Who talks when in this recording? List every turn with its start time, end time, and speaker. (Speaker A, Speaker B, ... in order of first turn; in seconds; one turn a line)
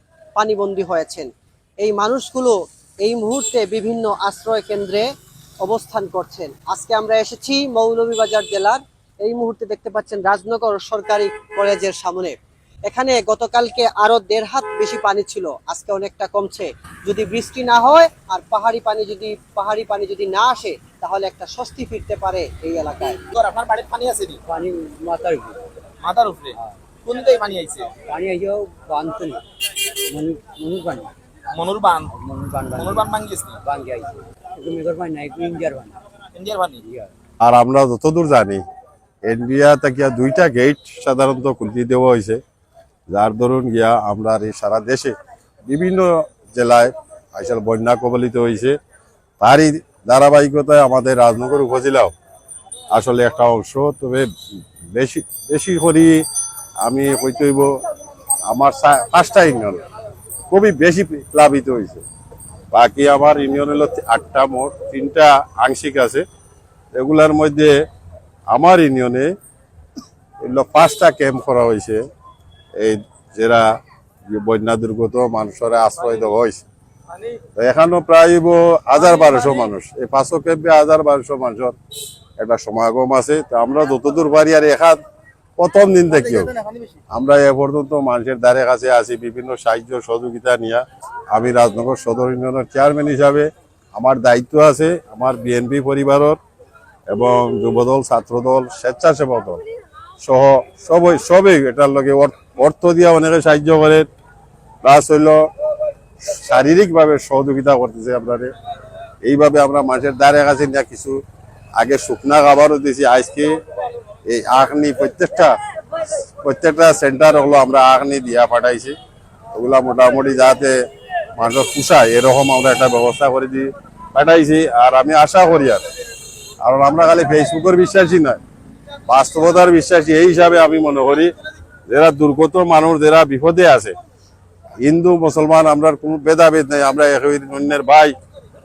Speaker A: 0.4-1.3
Speaker A: 1.8-5.0
Speaker A: 5.6-12.4
Speaker A: 12.9-23.2
Speaker B: 23.3-24.4
Speaker C: 24.5-25.6
Speaker B: 26.0-27.9
Speaker C: 28.0-29.4
Speaker C: 30.1-31.1
Speaker B: 31.5-32.1
Speaker C: 32.1-36.0
Speaker B: 32.7-33.6
Speaker B: 36.4-36.8
Speaker D: 37.4-38.6
Speaker D: 39.2-42.4
Speaker D: 43.1-45.1
Speaker D: 45.7-48.8
Speaker D: 49.4-52.1
Speaker D: 52.9-54.3
Speaker D: 54.9-56.2
Speaker D: 56.8-57.8
Speaker D: 58.5-59.8
Speaker D: 60.5-62.0
Speaker D: 62.7-66.2
Speaker D: 67.0-67.8
Speaker D: 68.5-69.3
Speaker D: 70.4-72.0
Speaker D: 72.8-73.8
Speaker D: 74.3-76.6
Speaker B: 76.0-76.3
Speaker B: 77.1-77.4
Speaker D: 77.6-81.8
Speaker B: 79.0-79.7
Speaker D: 82.4-85.0
Speaker D: 85.6-86.5
Speaker B: 86.1-87.0
Speaker D: 87.1-96.4
Speaker D: 97.1-99.6
Speaker D: 100.2-104.1
Speaker D: 104.8-105.5
Speaker D: 106.2-108.5
Speaker D: 109.2-111.2
Speaker D: 111.8-113.5
Speaker D: 114.3-119.0
Speaker D: 119.5-120.8
Speaker D: 121.4-125.8
Speaker D: 126.6-128.4
Speaker D: 129.1-131.3
Speaker D: 131.9-133.9
Speaker D: 134.8-138.2